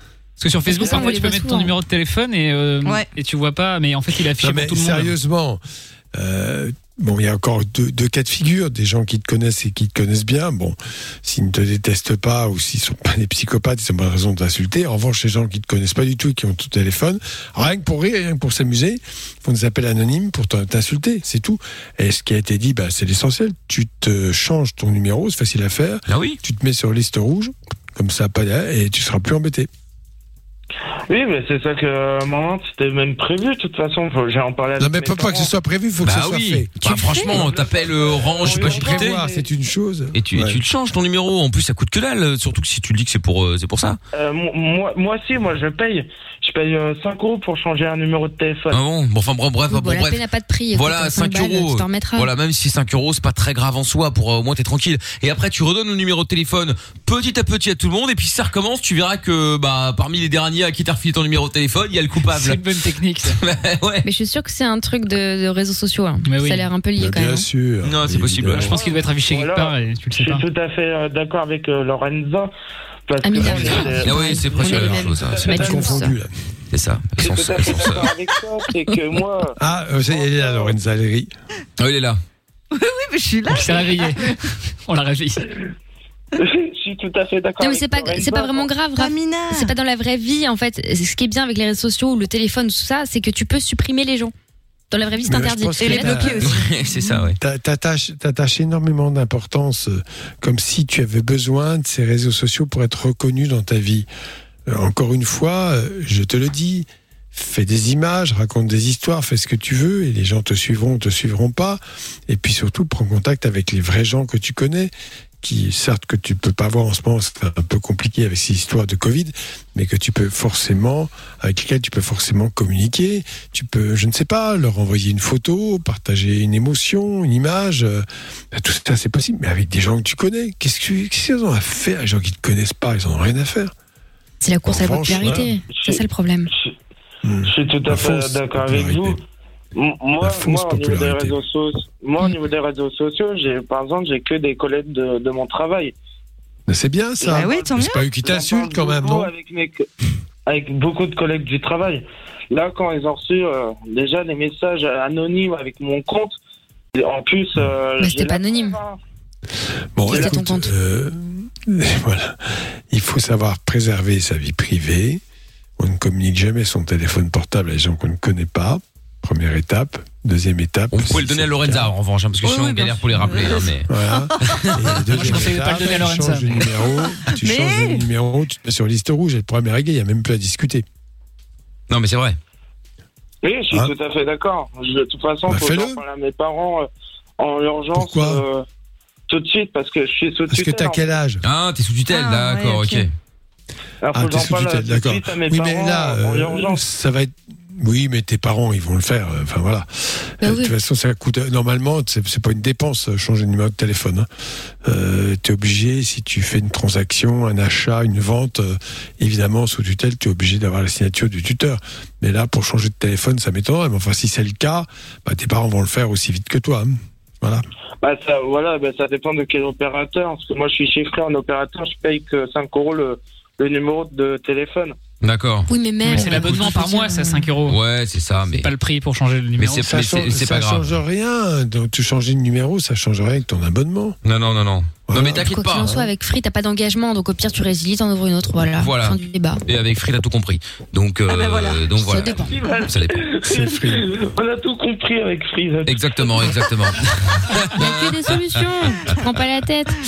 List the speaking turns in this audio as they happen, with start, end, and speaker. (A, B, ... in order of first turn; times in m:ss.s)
0:00.4-0:05.1 A
0:00.6-0:01.7 B
0:04.4-0:05.6 C
0:06.1-0:29.7 C
0:26.1-0:26.4 D
0:31.1-0:35.5 E
0:34.8-0:36.7 C
0:36.0-0:39.2 D
0:36.8-0:37.4 B
0:37.3-0:39.5 E
0:38.4-0:40.6 C
0:40.1-0:44.0 D
0:44.1-0:48.8 E
0:48.7-0:50.2 D
0:49.7-0:52.3 B
0:50.7-1:02.6 D
1:02.2-1:03.4 A
1:03.3-1:04.0 D
1:04.0-1:07.5 B
1:06.2-1:06.7 A
1:07.0-1:08.7 C
1:07.8-1:08.8 D
1:08.6-1:12.5 E
1:08.7-1:10.4 A
1:13.1-1:16.0 E
1:13.2-1:16.2 B
1:13.5-1:15.6 D
1:15.5-1:16.3 C
1:16.7-1:18.1 D
1:17.2-1:20.7 E
1:19.6-1:21.3 C
1:21.8-1:22.2 D
1:22.7-1:24.3 F
1:23.5-1:25.5 A
1:26.4-1:28.7 E
1:27.6-1:34.3 B
1:28.9-1:29.7 F
1:34.9-1:36.4 B
1:35.2-1:36.5 C
1:35.8-1:37.3 F
1:36.4-1:37.4 D
1:37.4-1:44.1 C
1:44.7-2:13.7 C
2:14.4-2:16.5 B
2:14.6-2:15.5 C
2:15.2-2:16.7 E
2:17.2-2:19.2 C
2:17.4-2:19.2 E
2:19.7-2:25.9 E
2:20.2-2:21.4 C
2:26.7-2:29.3 C
2:27.2-2:27.6 E
2:27.2-2:28.0 F
2:28.2-2:29.8 E
2:30.5-2:36.4 E
2:36.9-2:39.0 E
2:38.0-2:38.8 B
2:40.0-2:45.2 C
2:40.1-2:40.7 B
2:40.1-2:40.4 E
2:45.8-2:51.9 C
2:50.9-2:53.9 D
2:52.4-2:54.9 F
2:53.9-3:00.8 C
2:54.4-2:54.8 D
2:55.1-2:56.8 A
2:57.3-2:58.0 F
3:01.9-3:02.4 D
3:03.4-3:06.9 E
3:05.4-3:06.0 C
3:07.4-3:08.6 E
3:07.9-3:08.4 C
3:09.3-3:11.2 E
3:10.5-3:11.4 C
3:11.4-3:13.1 D
3:12.1-3:13.0 F
3:14.0-3:16.8 E
3:14.1-3:24.3 C
3:20.4-3:20.7 B
3:24.8-3:37.6 C
3:38.0-3:44.9 E
3:45.2-3:46.4 D
3:45.7-3:47.5 B
3:46.0-3:47.8 A
3:47.6-3:48.7 D
3:48.4-3:49.9 A
3:49.6-3:50.9 D
3:49.8-3:54.2 C
3:54.2-3:55.9 D
3:55.1-3:56.1 C
3:55.4-3:59.6 B
3:58.8-4:03.2 D
4:01.3-4:02.5 F
4:01.9-4:02.5 B
4:02.5-4:06.3 E
4:03.4-4:04.1 C
4:05.9-4:09.1 D
4:07.8-4:10.0 B